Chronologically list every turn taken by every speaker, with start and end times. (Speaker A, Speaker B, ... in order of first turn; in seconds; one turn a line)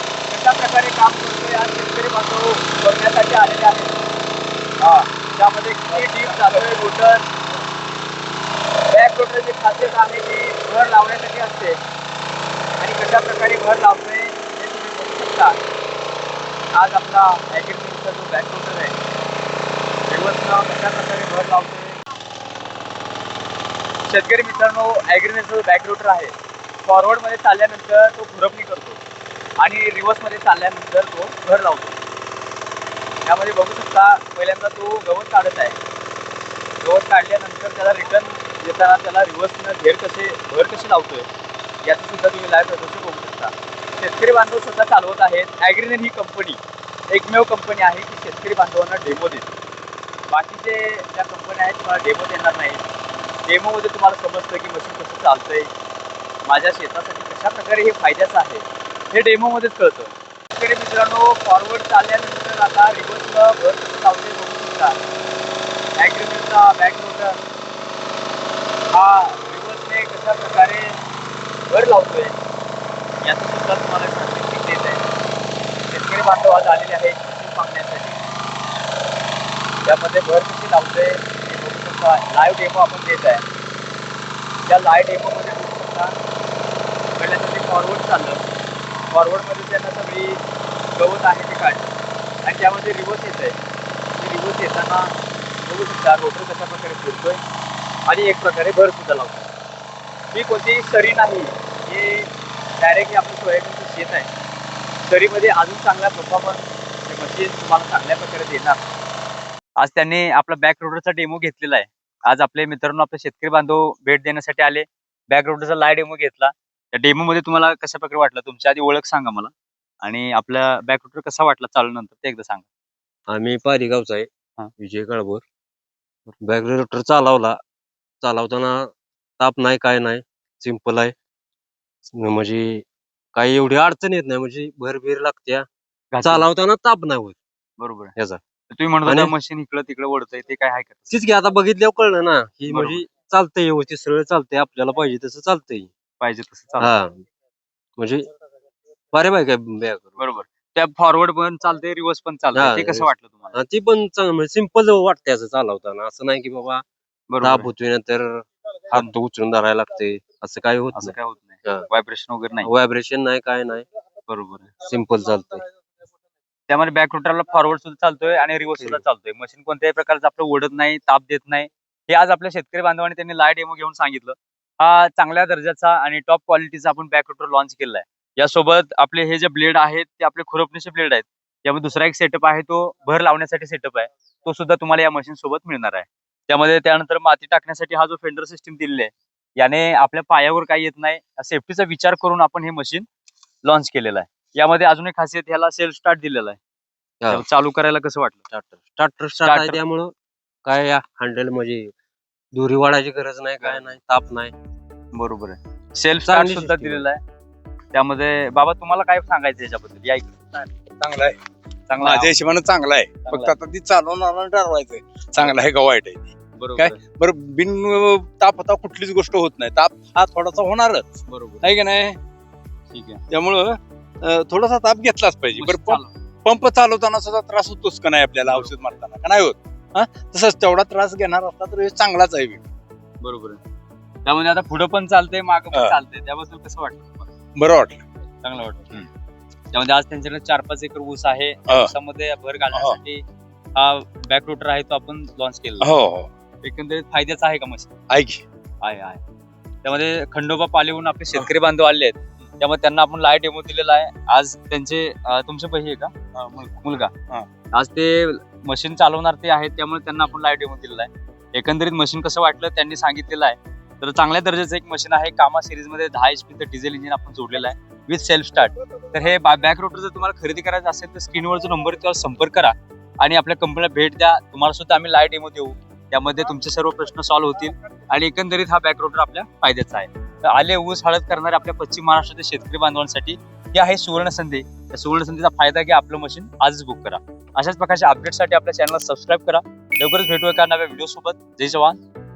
Speaker A: 0.3-3.9
Speaker A: 4.8-7.3
Speaker A: 8.9-11.8
Speaker A: 12.8-15.6
Speaker A: 16.7-18.9
Speaker A: 20.1-22.0
Speaker A: 24.0-26.3
Speaker A: 26.8-29.0
Speaker A: 29.6-32.0
Speaker A: 33.2-35.8
Speaker A: 36.8-41.3
Speaker A: 41.8-49.5
Speaker A: 50.3-55.7
Speaker A: 56.4-65.0
Speaker A: 66.0-67.4
Speaker A: 68.9-71.0
Speaker A: 71.7-72.3
Speaker A: 73.2-75.0
Speaker A: 75.9-78.2
Speaker A: 79.8-83.4
Speaker A: 84.7-86.2
Speaker A: 87.2-88.4
Speaker A: 89.1-90.4
Speaker A: 90.9-93.5
Speaker A: 94.1-97.4
Speaker A: 98.0-99.5
Speaker A: 100.3-104.3
Speaker A: 105.1-108.8
Speaker A: 109.8-119.5
Speaker A: 120.0-122.6
Speaker B: 123.3-125.4
Speaker B: 126.4-127.6
Speaker B: 128.2-131.1
Speaker B: 132.1-135.7
Speaker A: 136.1-136.4
Speaker B: 136.2-137.4
Speaker A: 137.8-138.1
Speaker A: 138.7-141.1
Speaker B: 139.1-139.3
Speaker B: 141.1-145.9
Speaker A: 142.7-143.1
Speaker A: 146.2-146.9
Speaker B: 146.8-147.2
Speaker B: 148.0-148.2
Speaker B: 149.1-150.2
Speaker A: 150.2-153.6
Speaker B: 152.5-156.8
Speaker A: 157.3-157.7
Speaker B: 157.4-161.8
Speaker A: 160.9-162.7
Speaker B: 162.6-163.8
Speaker A: 164.3-164.7
Speaker B: 164.8-165.6
Speaker A: 166.7-193.1
Speaker A: 193.6-196.6
Speaker A: 197.3-198.4
Speaker B: 198.5-200.1
Speaker A: 199.4-199.8
Speaker B: 200.6-201.9
Speaker B: 202.5-204.5
Speaker A: 203.6-203.9
Speaker A: 205.1-207.2
Speaker B: 206.2-207.1
Speaker A: 207.9-210.7
Speaker C: 211.0-211.4
Speaker A: 211.9-212.3
Speaker C: 212.0-221.0
Speaker A: 213.2-213.5
Speaker A: 216.6-217.0
Speaker A: 221.3-221.7
Speaker C: 221.6-222.2
Speaker A: 222.9-223.2
Speaker C: 223.3-232.6
Speaker A: 225.6-226.1
Speaker A: 228.4-228.9
Speaker A: 233.2-233.6
Speaker A: 234.2-237.3
Speaker C: 237.5-238.0
Speaker A: 238.4-239.1
Speaker A: 239.7-243.2
Speaker C: 242.7-243.0
Speaker A: 243.7-245.9
Speaker C: 245.8-246.3
Speaker A: 246.6-247.9
Speaker C: 248.1-248.4
Speaker A: 248.8-249.2
Speaker A: 249.8-257.1
Speaker A: 257.7-292.0